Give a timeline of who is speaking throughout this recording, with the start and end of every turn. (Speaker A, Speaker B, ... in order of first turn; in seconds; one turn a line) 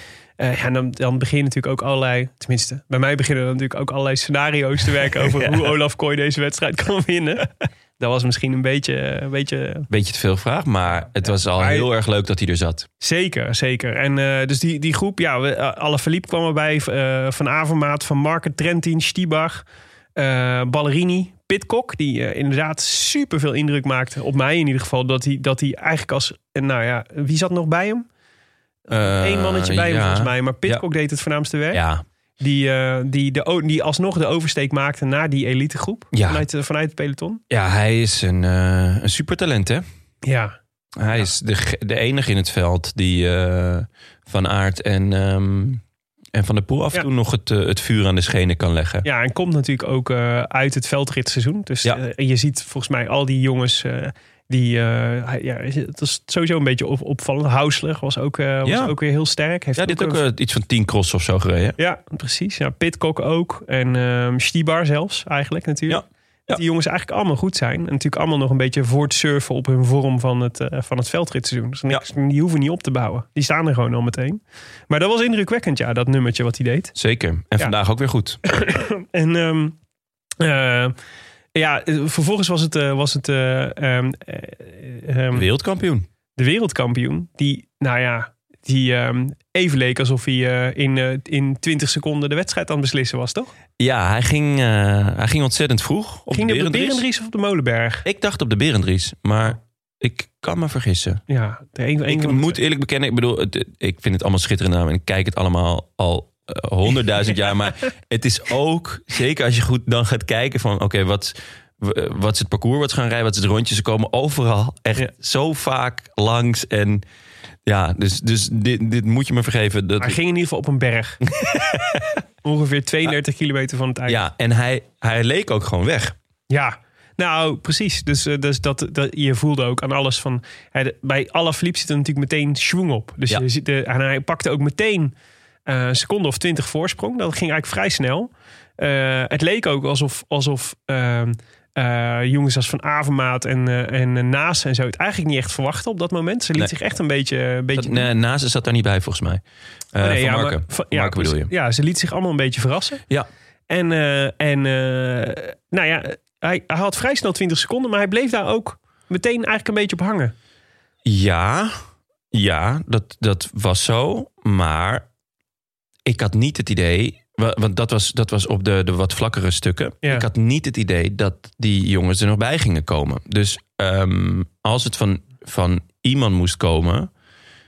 Speaker A: 0.4-9.9
Speaker B: 5.3-5.6
Speaker B: 9.9-12.9
Speaker A: 11.2-11.9
Speaker A: 13.0-19.6
Speaker A: 20.1-28.1
Speaker A: 28.9-31.8
Speaker B: 28.9-30.8
Speaker B: 31.7-32.0
Speaker A: 32.4-37.4
Speaker B: 36.1-36.4
Speaker B: 37.5-39.8
Speaker A: 40.2-40.5
Speaker B: 41.0-45.8
Speaker B: 46.3-49.0
Speaker A: 49.0-60.2
Speaker B: 58.6-58.9
Speaker B: 59.8-61.8
Speaker A: 61.8-76.9
Speaker B: 65.9-66.6
Speaker B: 76.9-78.4
Speaker A: 78.5-79.7
Speaker A: 80.4-80.9
Speaker A: 81.5-85.4
Speaker B: 85.3-86.0
Speaker A: 86.4-93.5
Speaker B: 93.8-97.0
Speaker A: 96.3-98.0
Speaker B: 98.0-101.2
Speaker A: 101.3-102.6
Speaker B: 102.1-117.0
Speaker B: 117.7-120.2
Speaker A: 120.0-121.2
Speaker B: 121.3-122.2
Speaker A: 122.4-124.2
Speaker B: 124.1-126.1
Speaker A: 126.5-135.1
Speaker A: 135.7-148.1
Speaker B: 147.7-149.4
Speaker B: 149.9-151.5
Speaker A: 150.0-153.0
Speaker A: 153.7-160.3
Speaker B: 161.0-165.1
Speaker B: 166.1-177.1